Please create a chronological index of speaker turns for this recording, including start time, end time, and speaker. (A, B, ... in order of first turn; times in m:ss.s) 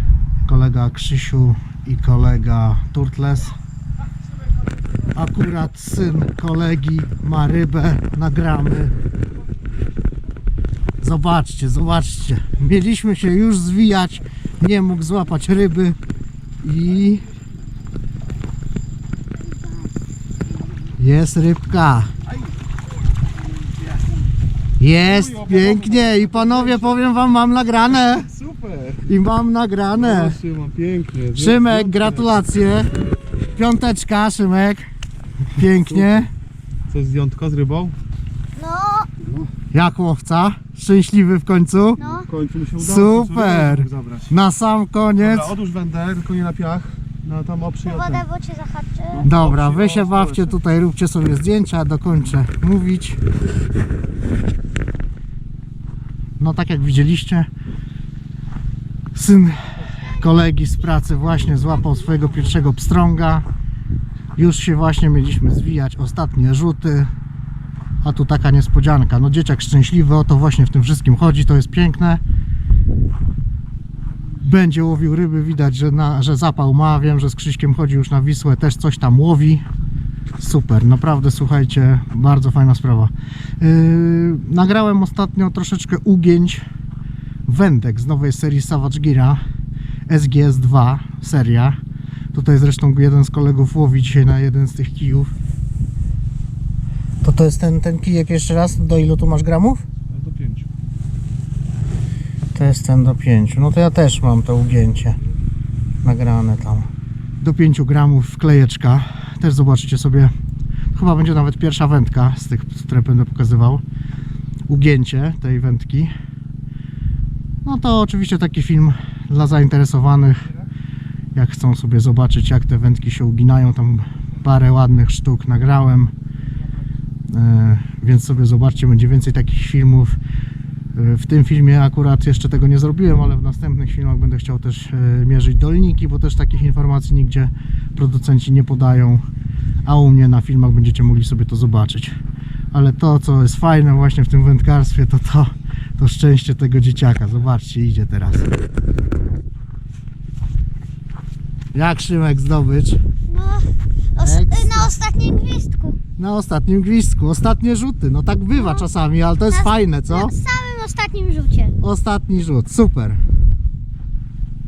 0:00.4-0:03.6 A
0:05.1-0:09.0 A
0:11.0-0:16.0 A
0:16.6-0:17.3 A
0:21.0-0:22.1 A
0:24.8-0:28.4 A
0:25.0-0:27.0 B
0:28.3-0:29.0 B
0:29.0-0:30.4 A
0:30.0-0:32.3 B
0:31.3-0:33.0 A
0:33.5-0:34.9 A
0:35.5-0:36.3 A
0:36.9-0:38.0 B
0:38.6-0:39.1 C
0:39.7-0:42.0 A
0:42.0-0:42.3 C
0:42.1-0:44.3 B
0:42.8-0:45.6 A
0:45.2-0:48.2 B
0:47.8-0:49.3 C
0:49.2-0:50.5 B
0:49.2-0:53.2 A
0:56.4-0:57.5 A
0:59.1-1:03.5 A
1:04.4-1:07.1 A
1:08.0-1:12.2 A
1:14.4-1:19.6 A
1:20.4-1:26.6 A
1:27.5-1:29.4 A
1:30.1-1:31.8 A
1:32.3-1:35.3 A
1:37.2-1:39.8 A
1:40.1-1:40.7 B
1:42.5-1:45.2 A
1:46.0-1:50.3 A
1:50.9-1:53.8 A
1:54.7-1:56.1 A
1:57.6-2:00.6 A
2:01.4-2:06.1 A
2:07.3-2:10.2 A
2:10.9-2:19.2 A
2:19.8-2:22.2 A
2:22.7-2:28.5 A
2:31.7-2:33.0 A
2:33.3-2:36.0 C
2:34.2-2:34.9 A
2:36.2-2:40.4 A
2:38.5-2:38.9 C
2:39.5-2:41.8 C
2:41.8-2:43.2 A